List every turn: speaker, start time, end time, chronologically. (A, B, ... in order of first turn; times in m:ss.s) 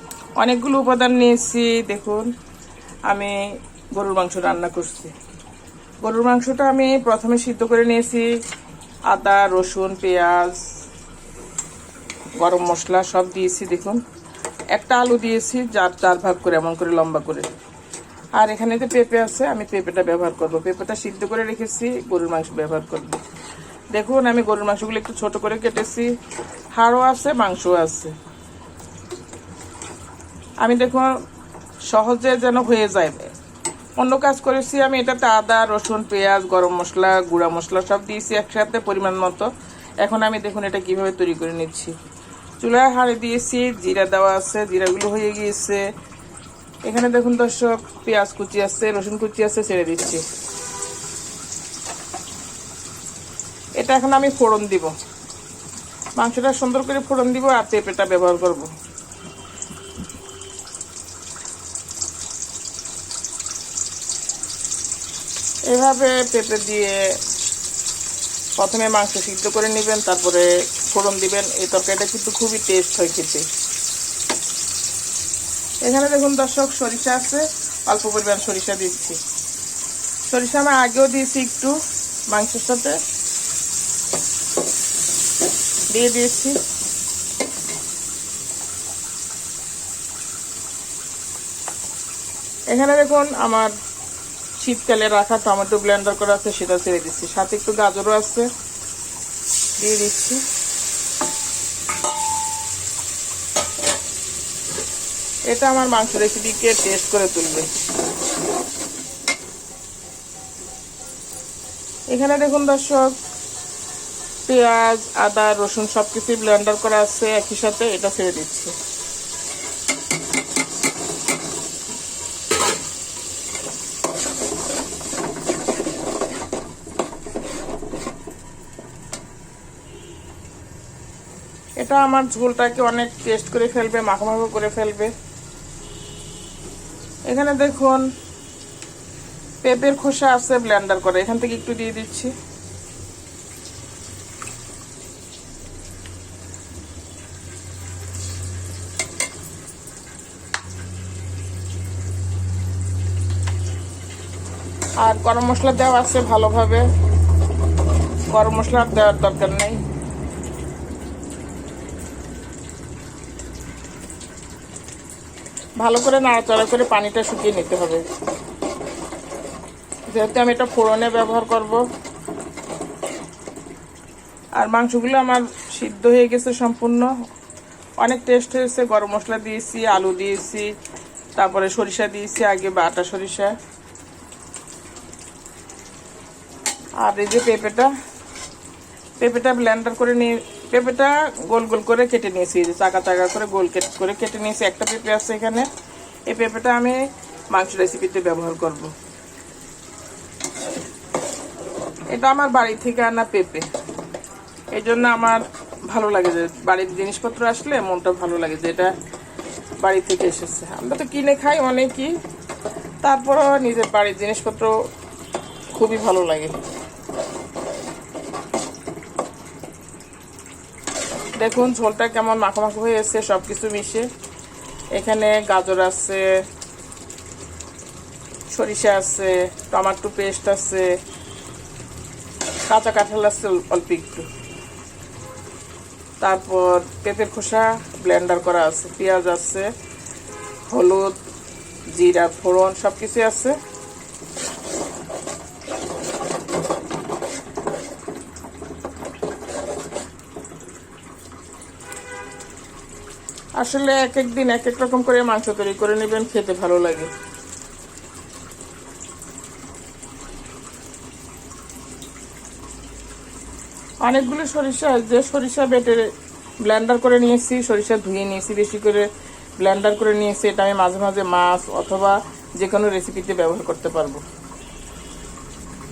0:00.4-0:02.3 A
0:03.1-0:05.1 A
0:06.0-0:08.3 A
0:09.1-0:10.6 A
0:12.4-0:14.0 A
0:14.7-0:17.5 A
0:18.4-0:23.2 A
0:23.9-0:26.1 A
0:26.7-0:28.1 A
0:30.6-0:31.2 A
0:31.8-0:33.3 A
0:34.0-0:39.5 A
0:40.0-0:42.0 A
0:42.6-0:45.9 A
0:46.9-0:50.2 A
0:53.8-0:54.9 A
0:56.2-0:58.7 A
1:05.7-1:07.1 A
1:08.6-1:13.5 A
1:15.8-1:19.2 A
1:20.3-1:23.0 A
1:25.9-1:26.6 A
1:32.7-1:33.7 A
1:34.6-1:38.5 A
1:39.8-1:40.4 A
1:45.5-1:47.7 A
1:52.1-1:53.2 A
1:54.5-1:58.7 A
2:11.8-2:15.1 A
2:17.3-2:18.0 A
2:19.6-2:22.3 A
2:35.0-2:36.9 A
2:38.3-2:39.8 A
2:45.8-2:48.0 A
2:50.1-2:51.8 A
2:54.6-2:57.1 A
2:58.0-3:00.7 A
3:01.4-3:03.6 A
3:07.0-3:07.9 A
3:09.2-3:15.7 A
3:16.3-3:18.9 A
3:22.1-3:23.7 A
3:24.7-3:28.9 A
3:29.8-3:32.1 A
3:33.0-3:34.7 A
3:35.7-3:36.6 A
3:41.4-3:44.1 A
3:44.9-3:46.4 A
3:48.5-3:51.0 A
3:52.7-3:54.3 A
3:56.2-3:59.7 A
4:00.7-4:01.2 A
4:01.9-4:03.6 A
4:13.6-4:17.1 A
4:24.0-4:26.1 A
4:26.6-4:29.1 A
4:29.6-4:34.2 A